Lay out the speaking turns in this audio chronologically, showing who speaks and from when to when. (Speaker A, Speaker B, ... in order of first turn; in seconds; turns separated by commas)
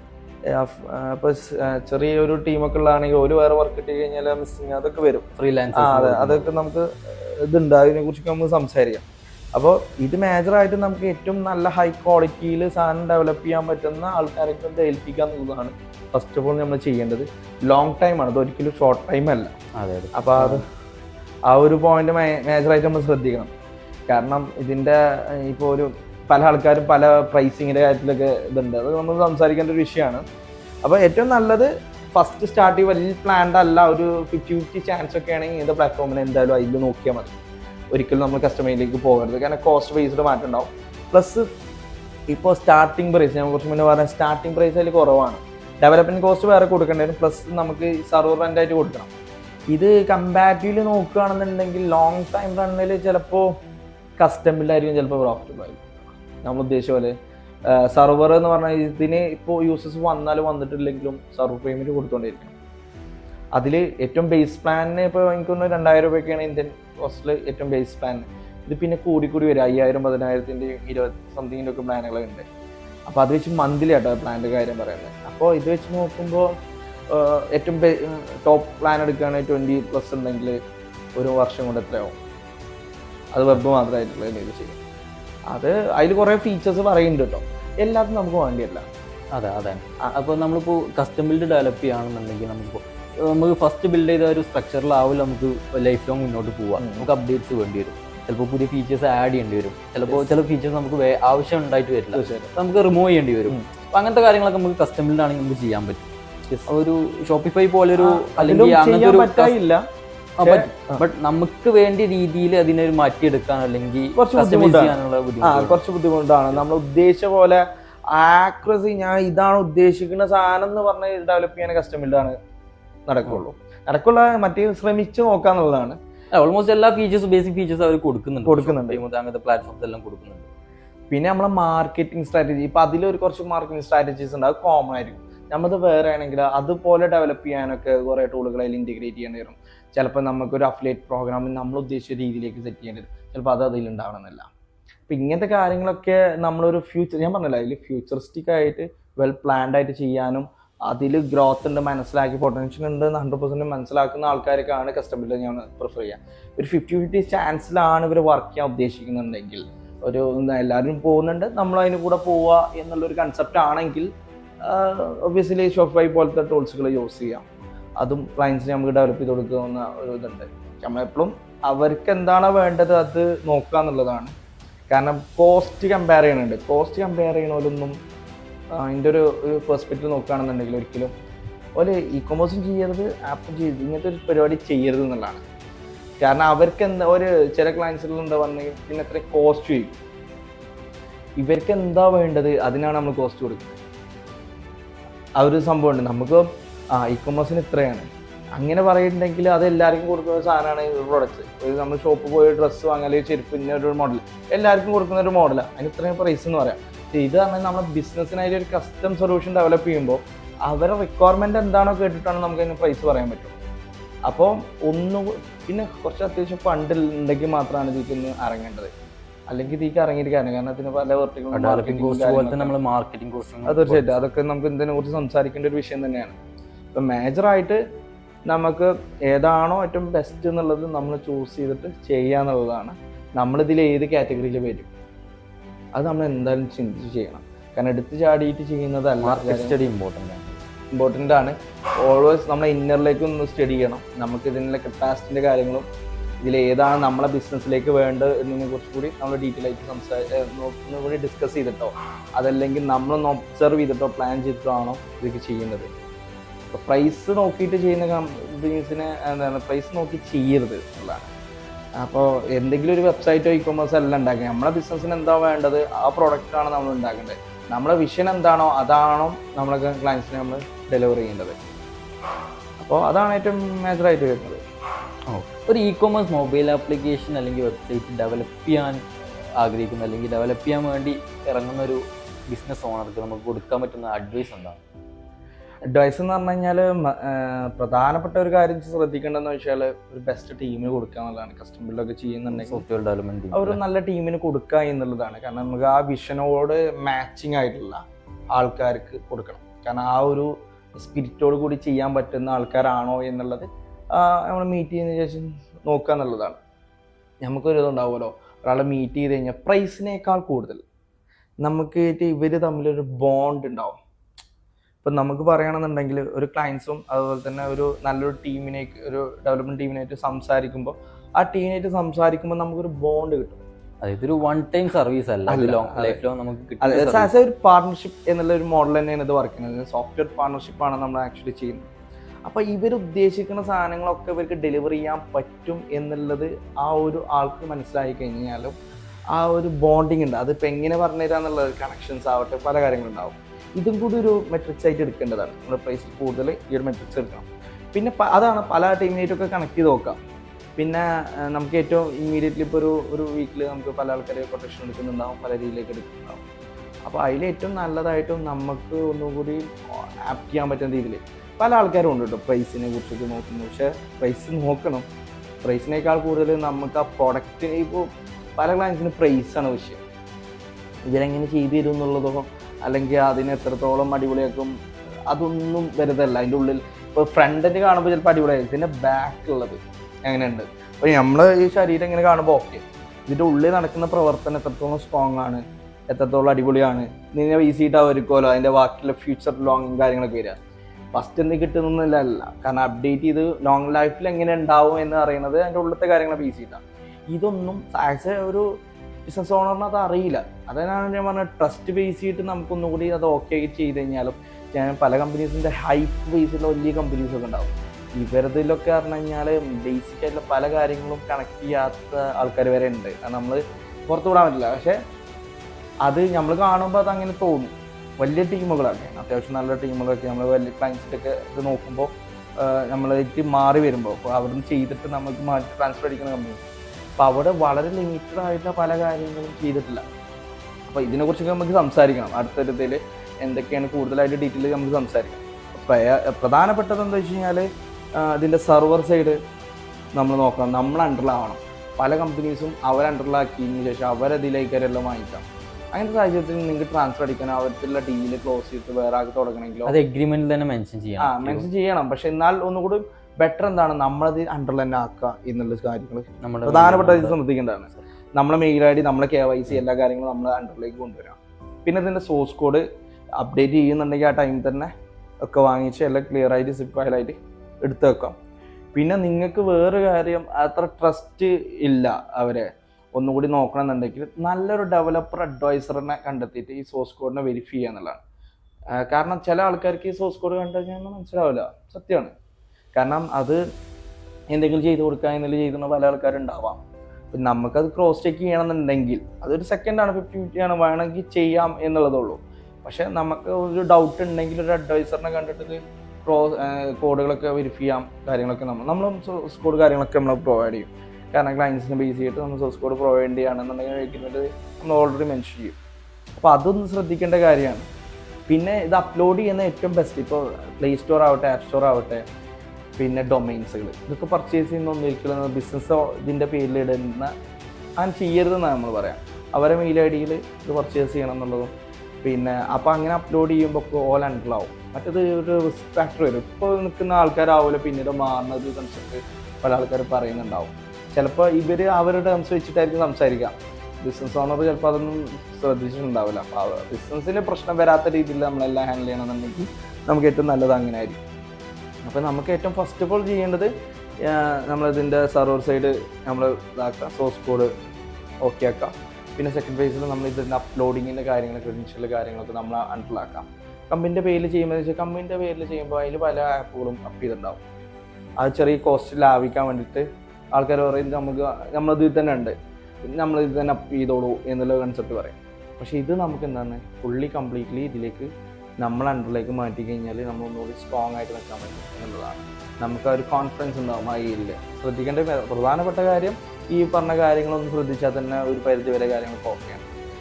Speaker A: 0.5-19.6, Speaker B: 5.4-6.5, Speaker B: 19.8-20.6, Speaker A: 20.1-20.6, Speaker A: 21.5-23.5, Speaker A: 24.1-30.2, Speaker A: 30.8-37.3, Speaker A: 37.9-41.5, Speaker A: 42.3-49.1, Speaker A: 49.7-53.5, Speaker A: 54.2-55.9, Speaker A: 56.4-57.1, Speaker A: 57.7-62.5, Speaker A: 63.6-72.5, Speaker A: 73.1-76.5, Speaker A: 77.1-80.6, Speaker A: 81.2-82.1, Speaker A: 83.3-84.8, Speaker A: 85.5-88.8, Speaker B: 89.3-106.1, Speaker A: 96.8-97.1, Speaker A: 102.1-102.5, Speaker B: 106.7-109.5, Speaker A: 108.0-109.8, Speaker B: 110.4-115.8, Speaker A: 110.4-111.0, Speaker A: 114.2-122.4, Speaker A: 123.1-126.0, Speaker B: 126.3-130.5, Speaker A: 128.4-129.0, Speaker A: 131.1-144.5, Speaker A: 145.1-164.1, Speaker A: 164.6-167.4, Speaker A: 168.0-174.3, Speaker A: 174.9-178.0, Speaker A: 178.7-181.1, Speaker A: 181.8-185.4, Speaker A: 186.2-190.0, Speaker A: 191.4-193.8, Speaker A: 195.4-213.6, Speaker A: 214.3-218.9, Speaker A: 219.5-222.7, Speaker B: 221.5-224.2, Speaker A: 223.7-226.4, Speaker A: 226.9-227.8, Speaker A: 228.5-234.9, Speaker A: 236.0-239.8, Speaker B: 239.2-240.6, Speaker A: 240.9-245.9, Speaker A: 246.4-255.9, Speaker A: 256.7-261.3, Speaker A: 262.0-271.6, Speaker A: 272.8-274.6, Speaker B: 275.3-279.0, Speaker B: 279.6-284.8, Speaker A: 285.9-292.8, Speaker B: 292.5-293.8, Speaker A: 293.5-298.0, Speaker A: 298.6-306.6, Speaker A: 307.4-310.8, Speaker A: 311.6-314.0, Speaker A: 315.0-323.6, Speaker B: 324.0-327.3, Speaker A: 325.5-326.2, Speaker A: 326.8-331.8, Speaker A: 332.5-338.8, Speaker A: 339.3-350.2, Speaker A: 350.8-356.4, Speaker A: 357.1-365.1, Speaker A: 365.6-370.0, Speaker A: 371.1-374.7, Speaker A: 375.3-390.6, Speaker A: 391.1-398.7, Speaker A: 399.3-415.0, Speaker A: 416.1-426.6, Speaker A: 427.2-430.0, Speaker A: 430.9-439.4, Speaker A: 440.2-449.9, Speaker B: 449.9-451.7, Speaker A: 451.2-462.8, Speaker B: 456.4-457.4, Speaker A: 463.4-464.9, Speaker A: 465.4-468.4, Speaker A: 468.9-478.2, Speaker A: 478.9-482.3, Speaker A: 483.0-483.6, Speaker A: 484.5-486.8, Speaker A: 487.3-505.8, Speaker A: 506.4-507.9, Speaker A: 508.5-512.2, Speaker A: 513.0-517.3, Speaker A: 518.0-521.7, Speaker A: 522.2-541.2, Speaker A: 542.1-543.7, Speaker A: 544.2-547.7, Speaker A: 548.4-557.6, Speaker A: 558.4-562.5, Speaker A: 563.1-579.9